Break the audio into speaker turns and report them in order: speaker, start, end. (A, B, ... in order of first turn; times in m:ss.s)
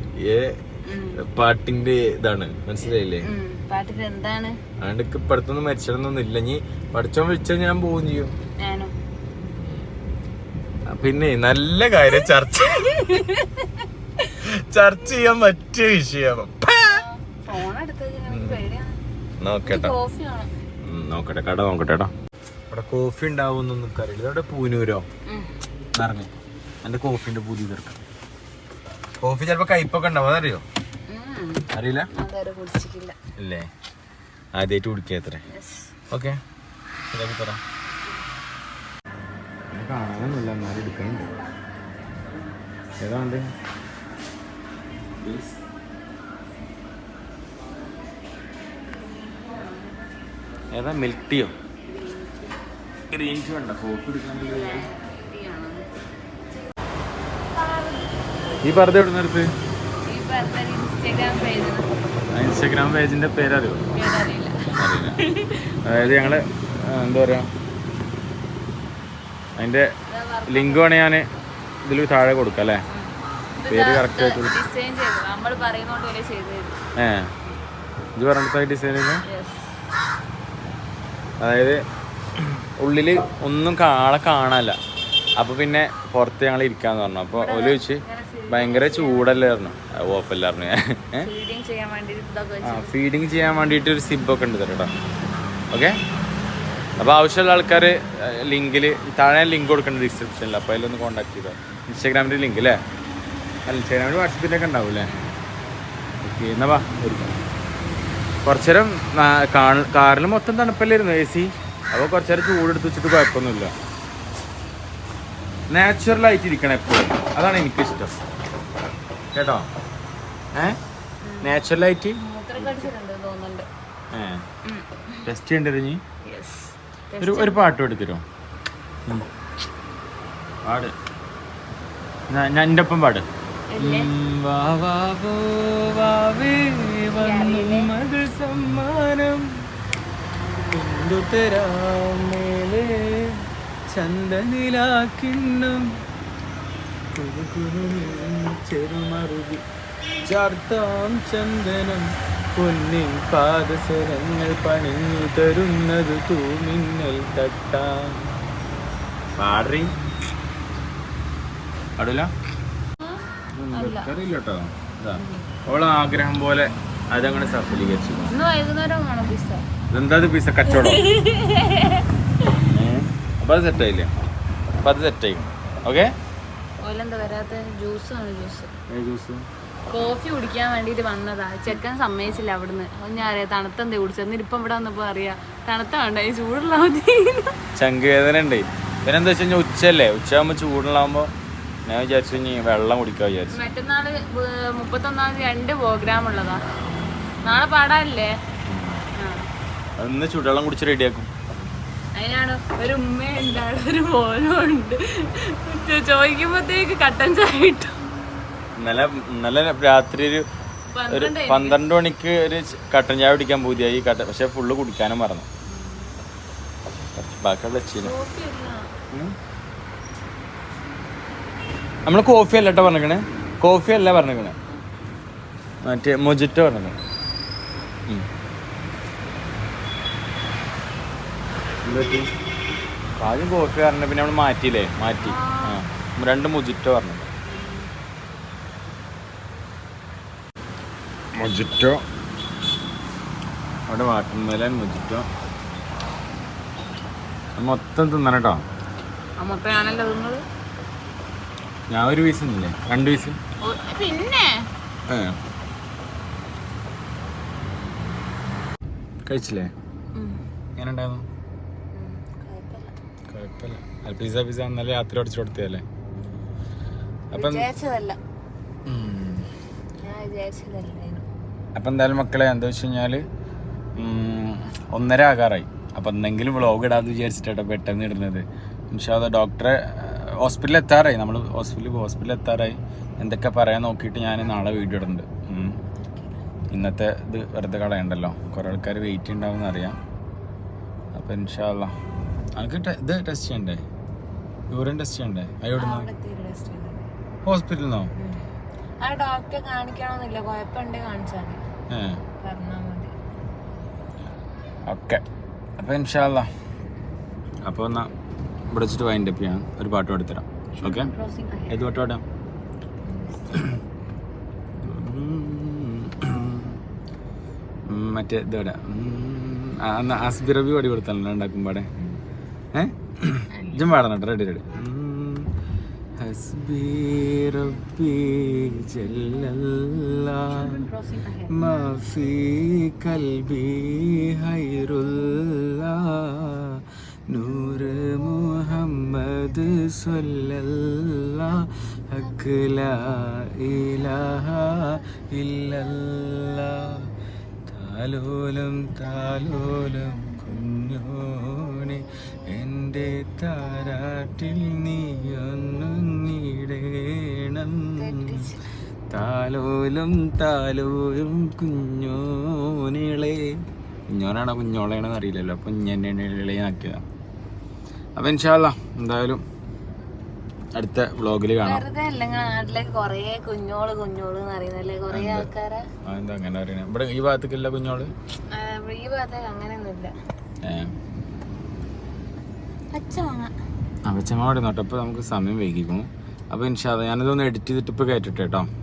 0:00.2-0:00.6 A
0:00.9-0:01.2 B
0:01.2-0:03.3 A
0:03.2-0:04.6 B
0:04.8-0:08.3 A
0:08.6-0:08.9 B
0:09.4-0:09.8 A
0:10.9-0:13.1 A
0:12.1-0:14.3 B
0:14.4-0:17.0 A
0:16.8-0:19.0 B
0:18.3-0:18.6 A
0:19.4-0:19.9 A
0:19.6-0:20.5 B
0:20.8-0:22.1 A
0:22.7-0:25.0 A
0:25.3-0:25.6 B
0:26.0-0:26.3 A
0:26.8-0:28.0 A
0:29.2-0:30.6 A
0:31.1-0:33.2 B
0:31.7-0:32.1 A
0:33.4-0:33.7 A
0:34.6-0:35.4 A
0:35.5-0:35.9 B
0:36.1-0:36.4 A
0:37.1-0:37.6 A
0:39.7-0:41.4 A
0:43.0-0:43.5 A
0:45.2-0:45.6 A
0:50.7-0:51.5 A
0:51.9-0:52.6 B
0:53.1-0:54.9 A
0:54.3-0:55.9 B
0:57.6-0:58.0 B
0:58.6-0:59.5 A
1:00.0-1:01.9 B
1:02.3-1:03.9 A
1:03.9-1:06.4 B
1:04.8-1:05.2 A
1:05.8-1:07.5 A
1:09.6-1:09.9 A
1:10.1-1:10.9 B
1:10.5-1:11.3 A
1:11.8-1:12.8 A
1:12.9-1:16.8 B
1:13.7-1:14.5 A
1:17.0-1:17.3 A
1:18.2-1:19.2 A
1:19.2-1:19.7 B
1:21.4-1:21.8 A
1:22.4-1:24.8 A
1:25.4-1:31.3 A
1:27.4-1:29.3 B
1:31.2-1:32.9 B
1:32.6-1:34.9 A
1:35.7-1:36.0 A
1:37.0-1:42.8 A
1:43.7-1:45.1 A
1:45.0-1:45.4 B
1:46.2-1:47.3 A
1:48.4-1:53.7 A
1:55.7-1:58.2 A
1:59.3-1:59.7 A
2:01.2-2:01.6 B
2:01.4-2:02.9 A
2:02.2-2:03.7 B
2:04.1-2:04.4 A
2:04.6-2:05.3 B
2:05.2-2:06.0 A
2:06.3-2:07.6 B
2:07.2-2:08.2 A
2:10.6-2:10.9 A
2:12.3-2:13.3 A
2:13.7-2:14.1 B
2:13.8-2:19.5 A
2:17.2-2:17.9 B
2:20.7-2:23.4 A
2:23.9-2:25.9 A
2:27.1-2:29.6 A
2:30.2-2:38.3 A
2:39.4-2:39.9 A
2:42.0-2:42.3 A
2:43.0-2:44.1 B
2:43.5-2:48.4 A
2:45.2-2:45.5 B
2:48.3-2:49.7 B
2:49.9-2:51.0 A
2:50.7-2:52.1 B
2:52.7-2:54.1 A
2:54.8-2:56.1 A
2:56.8-2:58.7 B
2:58.9-2:59.5 A
2:59.9-3:07.5 B
3:07.8-3:11.3 A
3:11.9-3:13.6 A
3:13.5-3:16.6 B
3:17.4-3:18.3 B
3:18.7-3:19.0 A
3:19.2-3:19.5 B
3:20.0-3:21.3 A
3:22.2-3:28.0 B
3:28.8-3:30.5 A
3:30.9-3:31.8 B
3:31.1-3:35.5 A
3:35.7-3:36.2 B
3:37.2-3:38.1 A
3:38.0-3:38.9 B
3:42.1-3:44.6 A
3:45.8-3:47.0 A
3:51.8-3:52.3 A
3:53.2-3:57.3 A
3:55.2-3:55.8 B
3:57.5-3:57.9 B
4:01.4-4:02.0 A
4:03.9-4:05.3 A
4:07.6-4:08.6 A
4:09.4-4:10.4 B
4:11.9-4:13.4 A
4:13.6-4:14.7 B
4:15.1-4:15.4 A
4:19.3-4:19.7 A
4:20.2-4:20.4 B
4:20.8-4:21.2 A
4:21.9-4:23.0 B
4:23.3-4:25.8 A
4:27.3-4:27.7 A
4:27.3-4:28.2 B
4:28.9-4:29.5 A
4:30.0-4:31.3 B
4:31.8-4:33.2 A
4:34.0-4:45.8 A
4:46.0-4:46.4 B
4:46.7-4:50.0 A
4:51.1-4:51.9 A
4:52.6-4:53.8 A
4:54.7-4:56.1 A
4:55.8-4:57.1 B
4:57.5-4:58.1 A
4:58.2-4:58.4 B
4:59.0-5:01.6 B
5:01.9-5:02.2 A
5:02.4-5:03.1 B
5:04.9-5:05.2 A
5:05.8-5:06.5 A
5:07.6-5:08.1 A
5:08.7-5:11.1 A
5:10.8-5:11.8 B
5:11.7-5:12.2 A
5:13.0-5:13.6 B
5:14.8-5:16.8 A
5:17.9-5:21.9 A
5:22.7-5:25.5 A
5:23.5-5:23.9 B
5:26.2-5:30.8 A
5:30.5-5:31.6 B
5:31.5-5:47.1 A
5:47.7-5:58.5 A
5:58.0-5:58.6 B
5:59.1-6:07.0 A
6:08.2-6:09.4 A
6:10.8-6:11.8 A
6:11.6-6:15.9 B
6:15.1-6:15.5 A
6:16.0-6:18.1 A
6:18.5-6:20.1 B
6:20.6-6:20.9 A
6:22.9-6:23.5 B
6:24.1-6:28.7 A